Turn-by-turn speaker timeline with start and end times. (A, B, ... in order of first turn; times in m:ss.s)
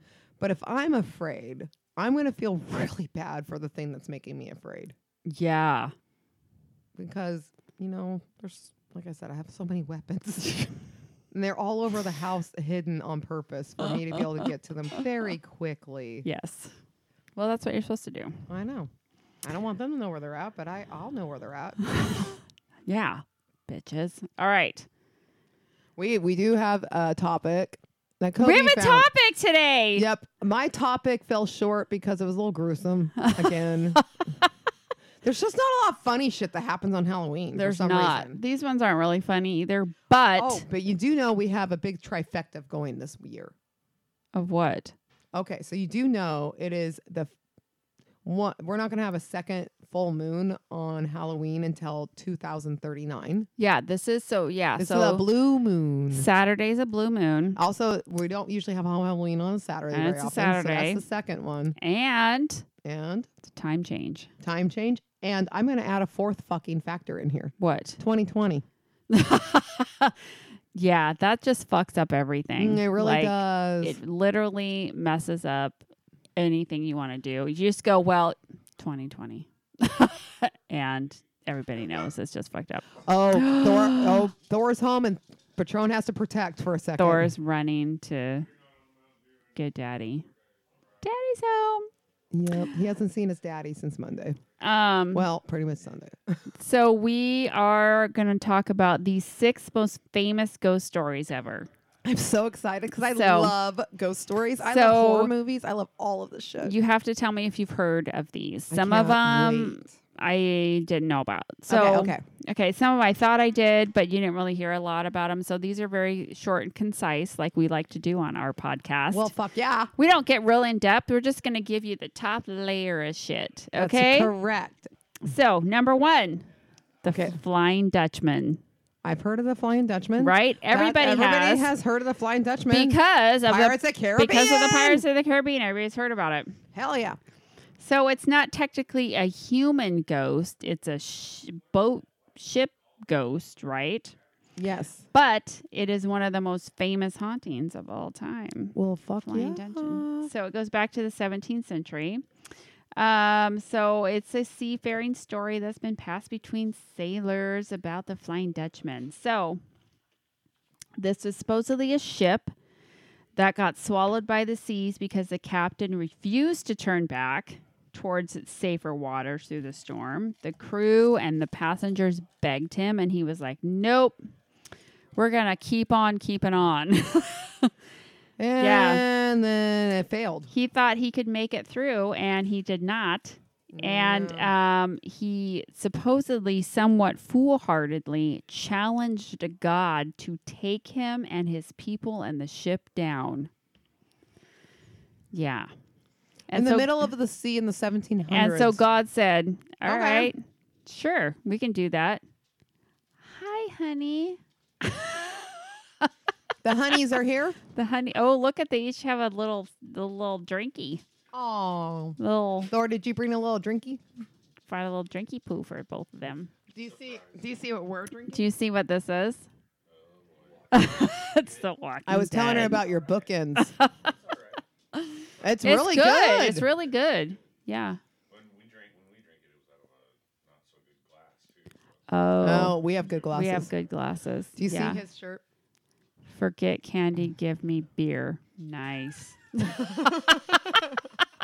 0:00.4-0:05.0 A
0:05.3-0:05.9 B
0:07.0-0:10.7 A
0:11.3-0:16.2 A
0:13.8-0:14.5 B
0:16.2-0:16.8 B
0:17.4-0:18.5 B
0:18.5-0:18.9 A
0:19.4-0:22.2 A
0:22.9-0:24.9 B
0:26.0-0:29.1 A
0:28.4-0:30.0 B
0:30.0-0:34.0 A
0:33.2-0:34.0 B
0:35.2-0:38.4 A
0:37.5-0:40.6 B
0:40.4-0:43.5 A
0:44.4-0:45.0 B
0:45.3-0:47.3 A
0:48.2-0:53.5 A
0:53.6-0:55.3 B
0:54.8-0:56.3 A
0:56.1-0:57.6 B
0:57.6-1:01.8 A
0:59.9-1:01.0 B
1:01.8-1:02.7 B
1:02.8-1:03.3 A
1:03.4-1:04.3 B
1:04.4-1:08.6 A
1:07.6-1:08.0 B
1:09.1-1:10.2 B
1:10.8-1:15.8 B
1:12.6-1:14.0 A
1:16.4-1:24.3 B
1:23.0-1:27.3 A
1:27.0-1:28.5 B
1:29.5-1:30.3 B
1:31.0-1:31.9 B
1:32.3-1:34.4 A
1:34.6-1:35.3 B
1:35.1-1:36.4 A
1:36.6-1:41.7 B
1:42.0-1:46.7 A
1:43.0-1:43.5 B
1:44.6-1:45.3 B
1:46.6-1:59.3 B
1:48.7-1:49.9 A
1:51.7-1:52.2 A
1:59.1-1:59.9 A
2:00.0-2:04.3 B
2:03.8-2:04.9 A
2:05.2-2:06.5 B
2:07.0-2:08.6 B
2:07.0-2:07.4 A
2:09.0-2:15.0 A
2:10.2-2:11.7 B
2:12.7-2:16.6 B
2:16.7-2:17.2 A
2:17.8-2:24.2 B
2:24.6-2:25.1 A
2:25.1-2:32.2 B
2:28.8-2:30.3 A
2:33.0-2:39.6 B
2:41.0-2:42.5 B
2:43.4-2:54.2 B
2:55.2-2:57.7 B
2:58.4-3:00.5 A
2:58.6-2:59.0 B
3:00.5-3:13.5 B
3:03.7-3:04.5 A
3:15.3-3:15.7 B
3:16.5-3:17.1 B
3:16.5-3:18.8 A
3:18.3-3:22.2 B
3:19.8-3:20.3 A
3:23.2-3:26.1 B
3:26.6-3:27.6 A
3:27.7-3:31.0 B
3:31.3-3:32.2 A
3:32.2-3:32.7 B
3:32.7-3:34.0 A
3:34.7-3:36.5 B
3:36.7-3:38.4 A
3:36.8-3:37.4 C
3:38.3-3:39.5 B
3:39.9-3:41.6 C
3:40.7-3:42.8 B
3:42.1-3:43.8 A
3:43.6-3:44.1 B
3:44.2-3:44.6 C
3:44.9-3:48.0 B
3:45.4-3:46.7 A
3:48.3-3:52.0 C
3:52.1-3:52.8 B
3:52.4-3:53.7 A
3:53.3-3:55.0 B
3:54.6-3:55.4 A
3:56.3-4:00.4 B